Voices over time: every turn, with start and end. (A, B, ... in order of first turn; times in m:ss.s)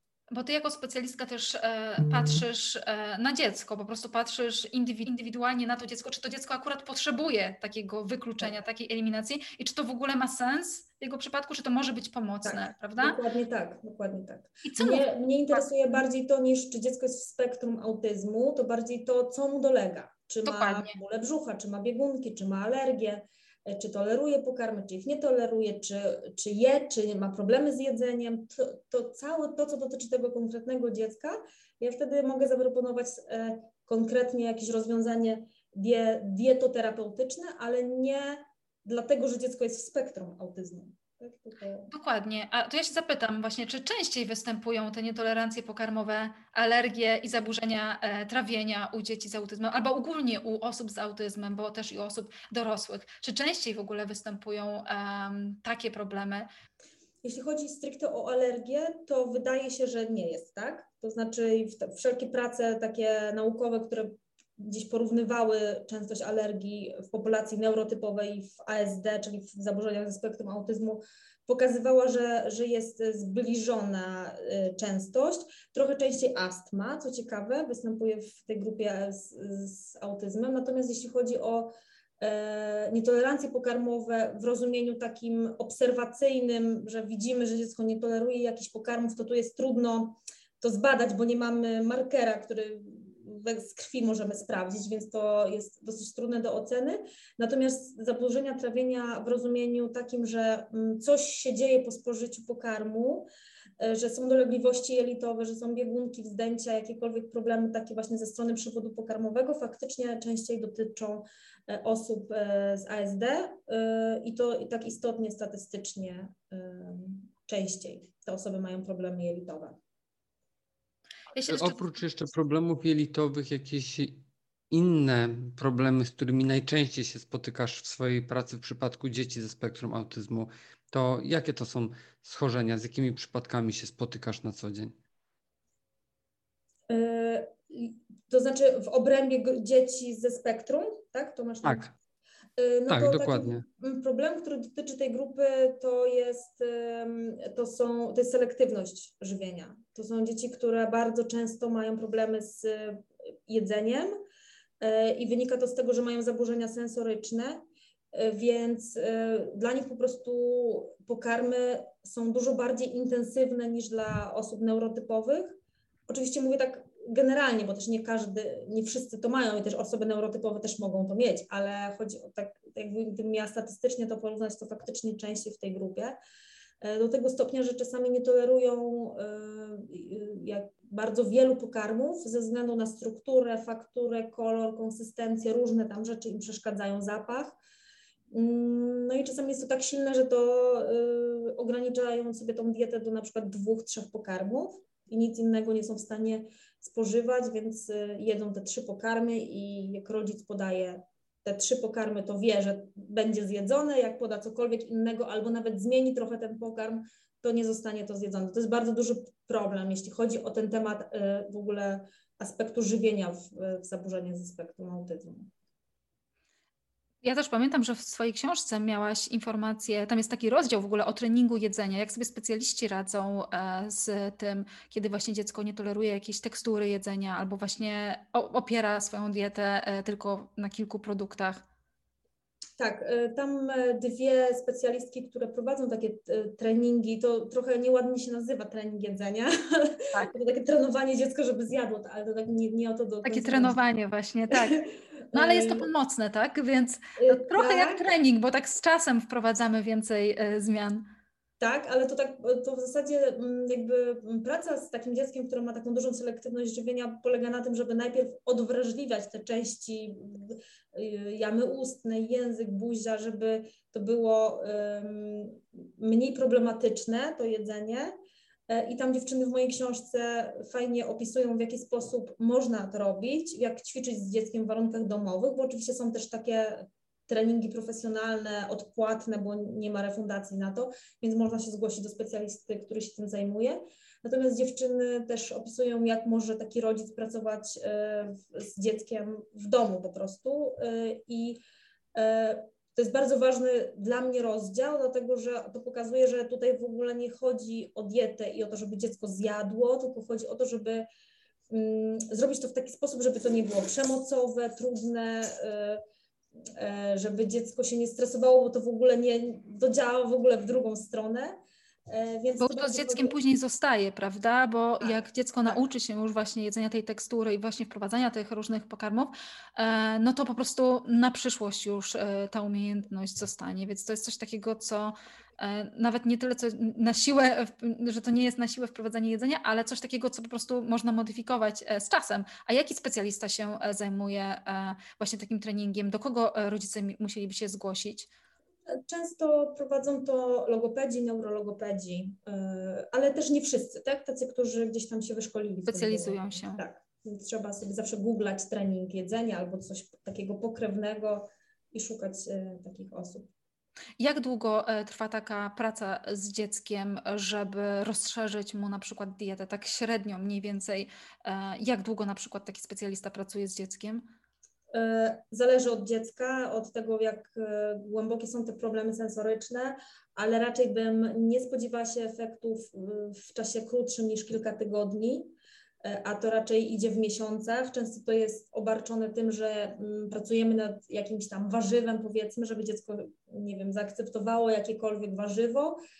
0:00.3-0:13.2 A
0:12.4-0:41.9 B
0:14.6-0:15.1 A
0:20.4-0:21.0 A
0:41.9-0:56.5 A
0:57.2-1:43.3 B
1:43.8-1:59.8 B
2:01.3-2:01.9 A
2:01.5-2:15.0 C
2:16.9-2:21.9 B
2:21.6-2:21.9 C
2:22.6-2:34.2 B
2:22.9-2:23.6 C
2:34.8-2:37.6 B
2:38.1-2:45.6 B
2:46.1-2:56.2 B
2:56.8-3:07.6 B
3:08.3-3:35.5 B
3:37.2-3:51.6 A
3:52.8-4:03.8 B
4:03.2-4:11.0 A
4:04.5-4:05.9 B
4:07.2-4:08.1 B
4:11.6-4:28.1 B
4:28.7-4:51.6 B
4:52.2-5:01.1 B
5:01.7-5:06.0 B
5:06.8-5:11.6 B
5:12.1-5:13.3 B
5:12.6-5:38.3 A
5:15.0-5:15.8 B
5:38.9-5:53.5 B
5:45.9-5:46.8 A
5:54.2-6:04.2 A
6:04.9-6:26.0 B